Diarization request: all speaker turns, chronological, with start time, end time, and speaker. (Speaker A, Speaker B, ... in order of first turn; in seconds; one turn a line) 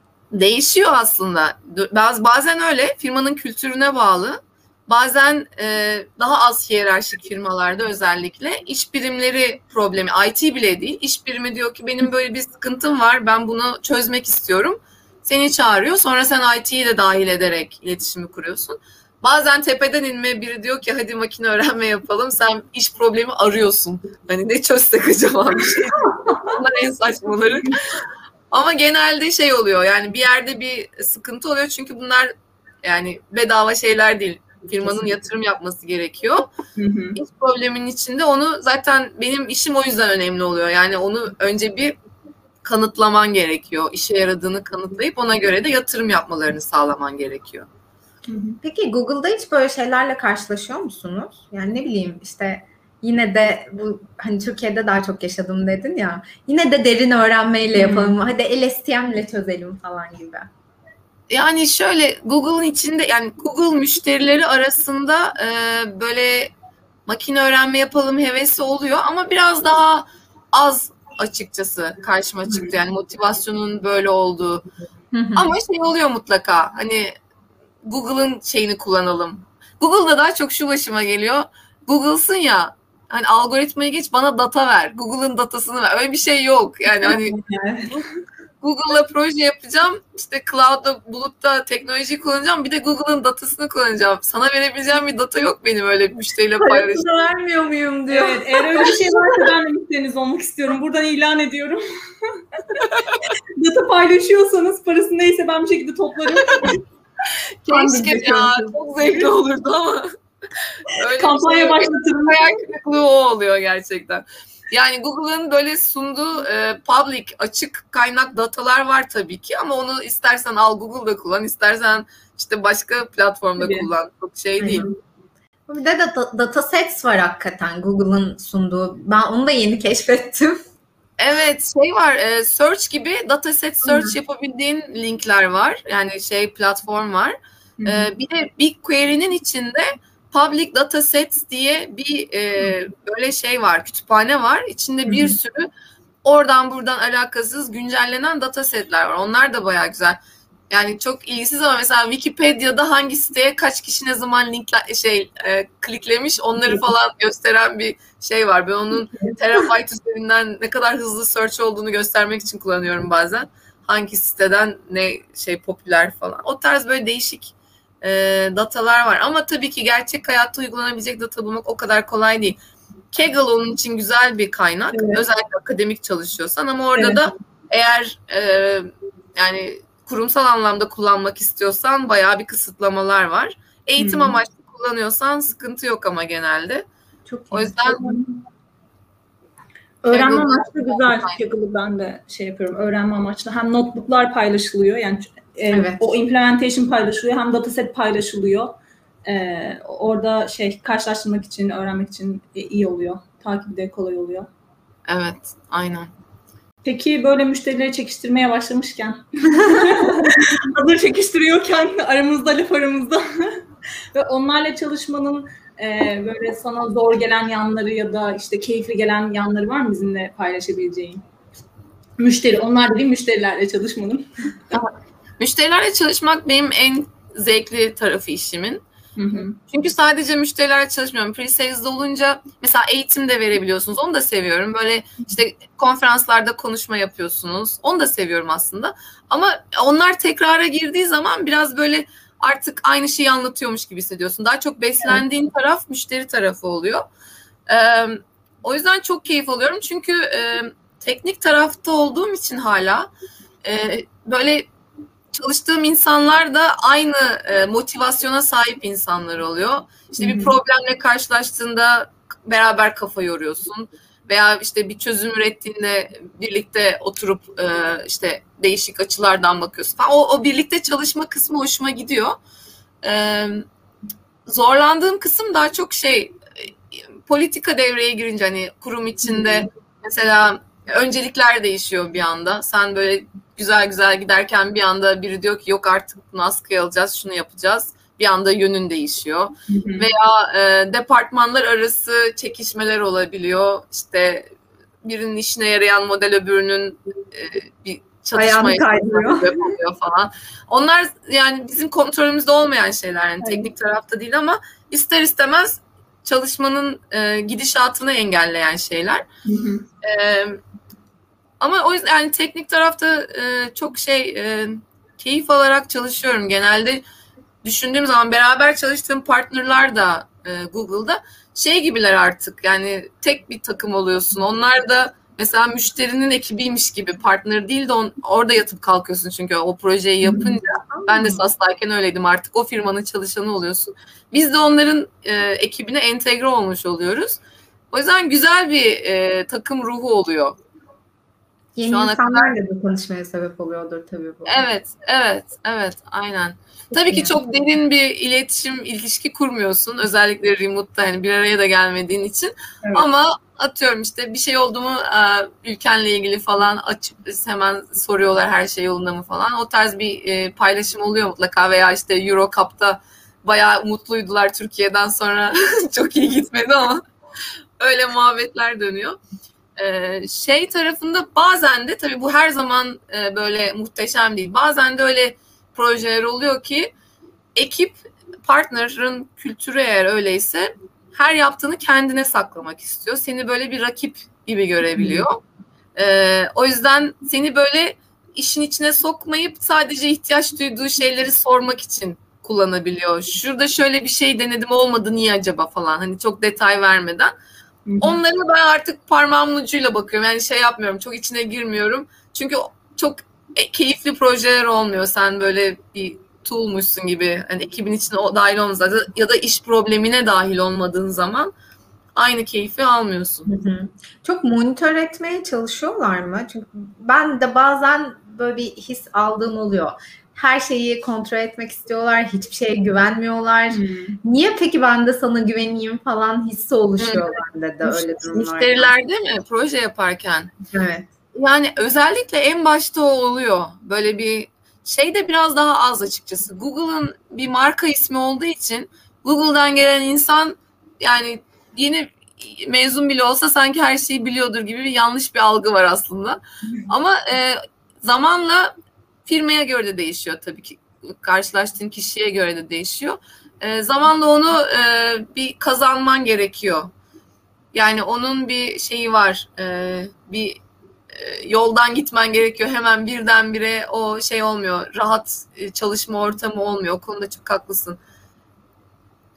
Speaker A: 0.3-32.3
Speaker B: 26.2-26.5
Speaker A: 32.8-36.5
Speaker B: 36.8-37.2
Speaker A: 37.2-42.0
Speaker A: 42.6-47.7
Speaker B: 48.3-48.6
Speaker C: 48.6-60.5
Speaker B: 57.8-58.1
Speaker A: 61.3-66.5
Speaker A: 67.1-74.7
Speaker C: 75.1-75.5
Speaker A: 75.4-77.1
Speaker A: 77.8-87.4
Speaker B: 86.9-88.0
Speaker A: 88.6-97.1
Speaker C: 96.6-99.5
Speaker B: 98.1-102.9
Speaker B: 103.6-106.8
Speaker A: 106.3-106.7
Speaker C: 107.7-108.7
Speaker A: 107.7-110.1
Speaker A: 110.9-124.8
Speaker B: 111.0-112.6
Speaker B: 123.6-123.9
Speaker C: 124.6-124.9
Speaker C: 125.7-130.6
Speaker A: 131.2-145.7
Speaker C: 133.8-134.2
Speaker B: 137.8-138.1
Speaker B: 145.1-145.4
Speaker A: 146.2-172.6
Speaker A: 173.1-186.9
Speaker B: 174.9-175.2
Speaker B: 176.9-177.2
Speaker B: 184.0-184.4
Speaker C: 187.3-188.0
Speaker A: 187.5-188.2
Speaker B: 190.0-198.7
Speaker A: 190.1-191.4
Speaker C: 195.7-196.1
Speaker B: 199.3-204.5
Speaker A: 205.1-206.1
Speaker B: 206.8-221.2
Speaker B: 222.2-224.5
Speaker A: 224.7-228.8
Speaker B: 229.2-229.6
Speaker A: 229.6-247.1
Speaker A: 247.7-253.1
Speaker A: 253.6-254.7
Speaker A: 255.3-272.4
Speaker B: 260.2-260.6
Speaker A: 273.0-273.7
Speaker A: 274.5-294.5
Speaker B: 289.7-290.1
Speaker A: 295.0-309.2
Speaker C: 298.4-299.6
Speaker B: 303.4-303.7
Speaker B: 309.5-309.9
Speaker A: 310.0-310.6
Speaker A: 311.6-317.0
Speaker A: 317.6-337.4
Speaker B: 330.2-330.5
Speaker C: 330.9-331.4
Speaker A: 337.9-340.6
Speaker C: 341.8-344.7
Speaker A: 341.9-342.5
Speaker A: 344.5-367.0
Speaker C: 346.9-347.3
Speaker A: 367.8-369.2
Speaker A: 369.8-376.9
Speaker A: 377.6-385.4
Speaker B: 385.0-385.3
Speaker A: 386.0-397.3
Speaker B: 397.9-398.2
Speaker A: 398.0-411.5
Speaker A: 412.1-413.5
Speaker C: 413.5-428.9
Speaker B: 423.7-424.2
Speaker A: 427.0-430.5
Speaker C: 430.7-431.1
Speaker A: 431.3-448.7
Speaker A: 449.3-456.9
Speaker A: 457.7-460.6
Speaker A: 461.1-468.0